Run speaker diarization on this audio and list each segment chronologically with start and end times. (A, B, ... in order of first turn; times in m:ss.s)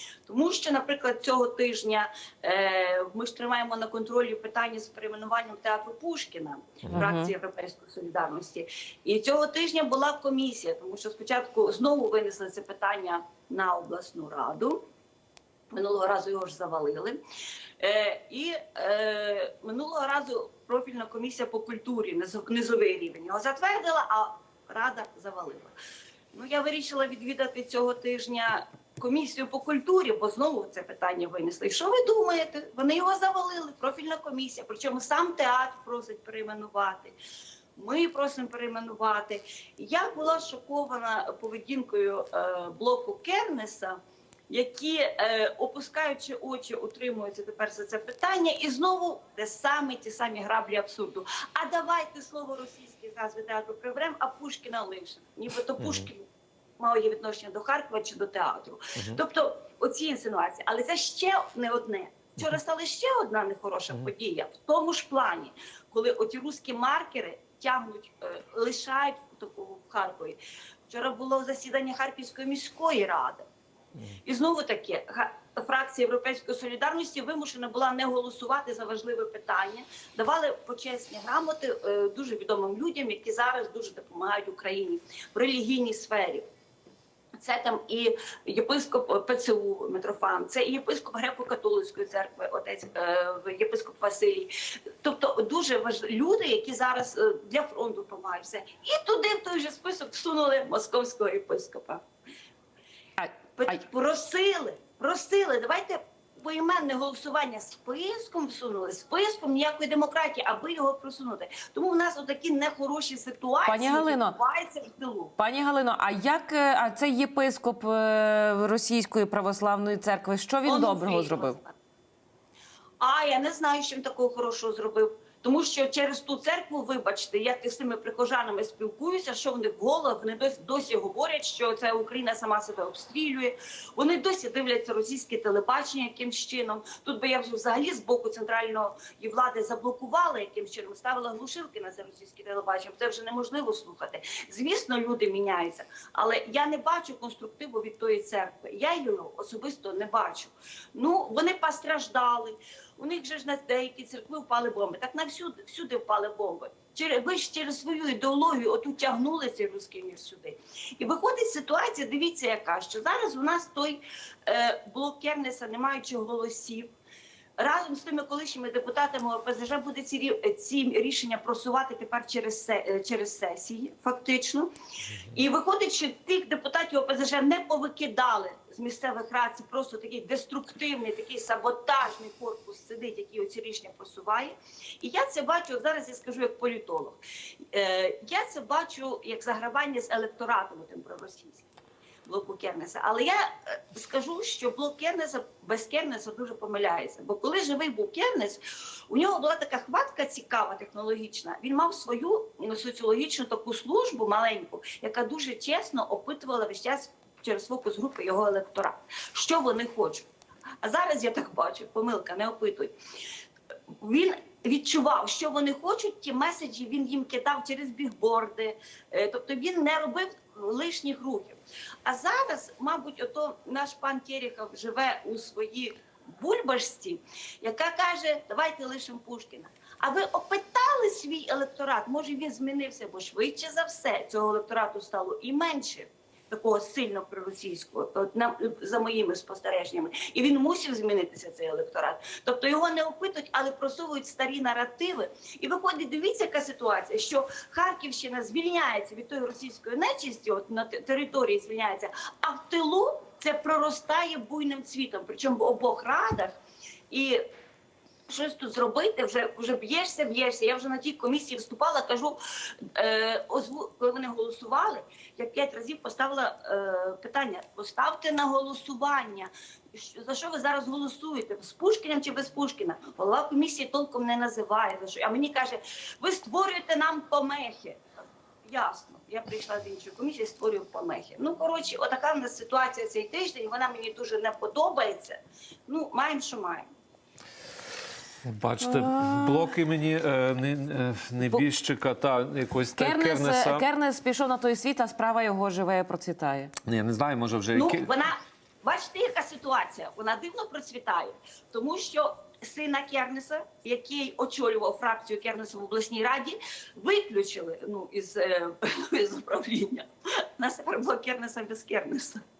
0:00.3-0:14.8 A
0:07.0-0:07.3 B
0:15.7-0:17.2 A
0:17.8-0:25.8 A
0:26.3-0:37.2 A
0:37.8-0:44.0 A
0:44.5-0:56.3 A
0:55.8-0:56.1 C
0:56.8-1:10.4 A
1:10.9-1:13.4 A
1:14.2-1:26.4 A
1:27.4-1:42.0 A
1:43.2-1:43.8 B
1:43.6-1:55.3 A
1:53.7-1:54.4 B
1:55.4-2:01.6 B
2:00.6-2:01.8 A
2:03.0-2:46.9 A
2:47.6-3:07.2 A
3:07.7-3:11.7 A
3:12.2-3:30.3 A
3:30.8-3:32.9 A
3:34.0-4:17.4 A
4:18.3-4:38.0 A
4:38.6-4:46.9 A
4:48.4-4:53.8 C
4:48.8-4:49.7 B
4:53.0-4:56.7 B
4:56.8-4:58.1 C
4:57.7-5:10.1 A
5:10.6-5:12.4 A